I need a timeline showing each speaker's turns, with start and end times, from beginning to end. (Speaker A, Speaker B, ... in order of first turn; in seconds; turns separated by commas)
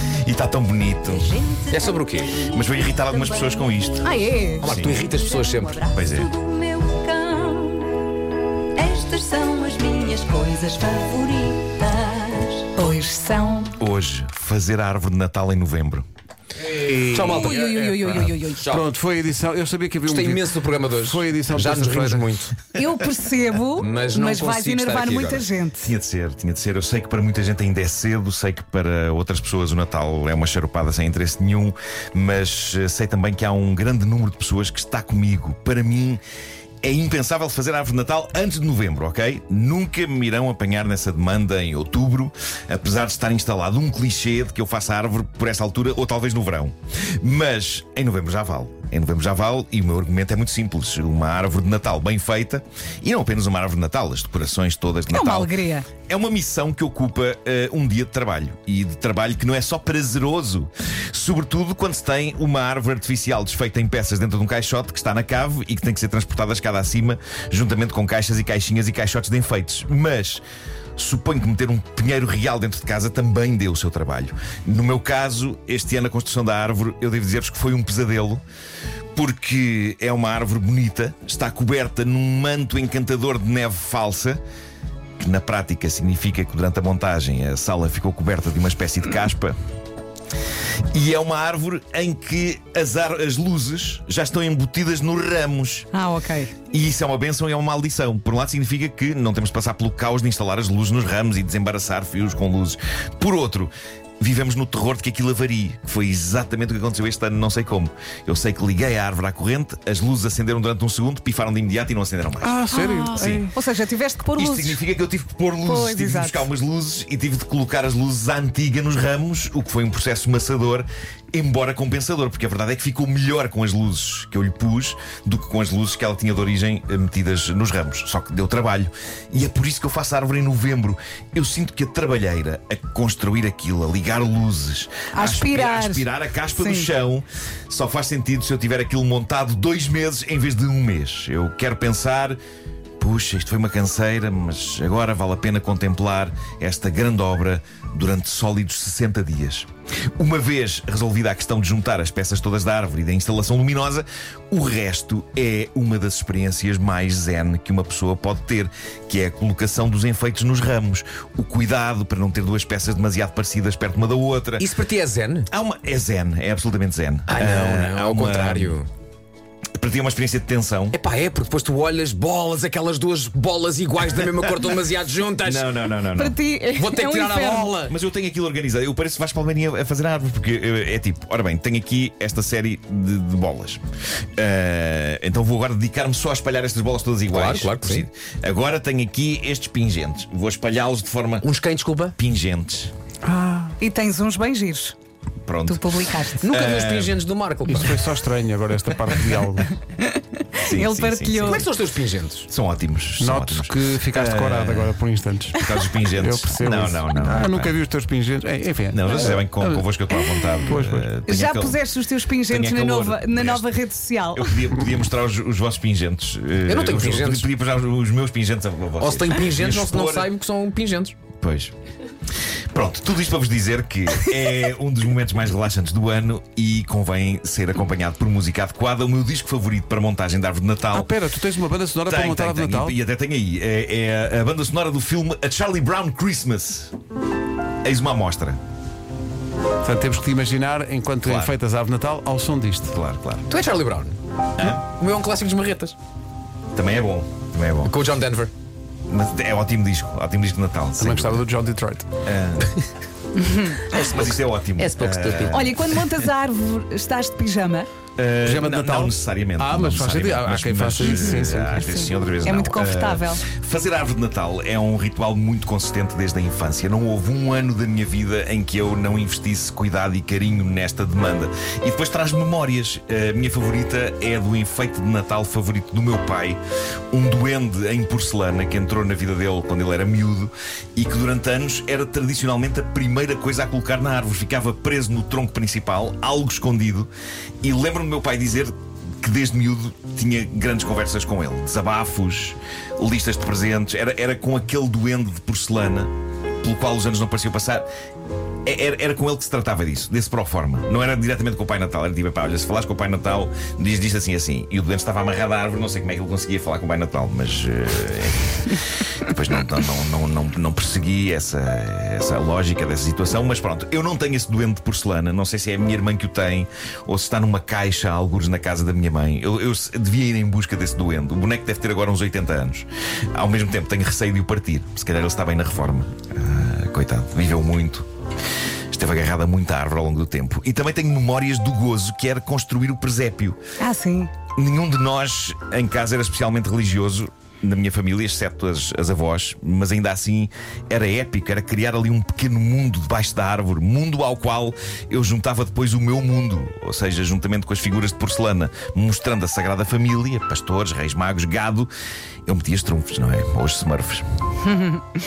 Speaker A: 0.2-1.5, Speaker B: 1.7-2.4, Speaker A: 2.4-5.1, Speaker C: 4.0-4.7, Speaker B: 4.6-5.8, Speaker A: 5.9-6.3, Speaker C: 6.9-7.9, Speaker D: 9.0-12.3, Speaker C: 12.8-13.8, Speaker A: 13.8-16.1, Speaker B: 16.6-18.9, Speaker E: 16.8-22.4, Speaker C: 17.3-18.6, Speaker B: 20.0-22.5, Speaker A: 22.8-23.1, Speaker C: 22.8-25.9, Speaker B: 23.8-25.5, Speaker A: 25.8-36.2, Speaker A: 36.8-70.4, Speaker C: 55.1-55.9, Speaker A: 71.0-78.4, Speaker A: 79.2-84.4, Speaker A: 85.2-89.6, Speaker A: 90.9-95.9, Speaker C: 95.9-96.6, Speaker A: 96.6-112.6, Speaker E: 112.4-113.5, Speaker C: 112.7-114.8, Speaker A: 113.2-113.5, Speaker A: 114.3-142.4, Speaker C: 115.6-116.5, Speaker C: 135.1-136.1, Speaker C: 136.6-136.9, Speaker A: 143.0-164.7, Speaker B: 164.6-165.5, Speaker A: 165.5-168.8, Speaker B: 167.3-168.9, Speaker A: 169.8-171.0, Speaker B: 170.9-175.7, Speaker A: 175.4-176.4, Speaker C: 176.1-177.8, Speaker B: 176.8-177.9, Speaker A: 177.9-183.8, Speaker A: 184.4-191.5, Speaker B: 187.3-188.1, Speaker B: 191.4-192.2, Speaker A: 192.2-192.9, Speaker E: 193.2-193.8, Speaker C: 193.8-195.0, Speaker A: 195.5-197.2, Speaker C: 195.7-196.5, Speaker B: 196.4-198.0, Speaker E: 197.7-199.7, Speaker C: 199.9-201.7, Speaker A: 200.6-201.6, Speaker B: 201.4-202.5, Speaker A: 202.5-205.0, Speaker E: 203.2-205.6, Speaker A: 205.6-207.8, Speaker E: 206.2-209.8, Speaker A: 208.9-211.8, Speaker E: 210.7-211.1, Speaker C: 211.3-214.6, Speaker A: 212.5-220.3, Speaker B: 216.7-217.5, Speaker B: 219.0-221.2, Speaker A: 221.4-221.7, Speaker A: 222.7-231.2, Speaker E: 230.9-233.0, Speaker A: 232.1-236.9, Speaker A: 237.8-238.6, Speaker E: 239.8-243.0, Speaker A: 241.2-241.6, Speaker A: 242.9-243.5, Speaker B: 243.5-246.0, Speaker A: 244.6-244.8, Speaker A: 246.7-247.9, Speaker B: 247.8-248.5, Speaker A: 249.1-251.4, Speaker E: 251.0-252.1, Speaker A: 252.2-252.8, Speaker C: 253.4-253.8, Speaker B: 253.9-255.7, Speaker A: 253.9-256.3, Speaker C: 255.5-257.9, Speaker A: 258.2-276.6, Speaker E: 258.4-262.1, Speaker C: 261.0-263.5, Speaker A: 277.1-287.1, Speaker A: 287.6-297.9, Speaker A: 298.6-328.1, Speaker A: 328.9-333.6, Speaker C: 333.8-334.3, Speaker A: 334.6-351.9, Speaker A: 352.5-354.2, Speaker C: 354.7-355.0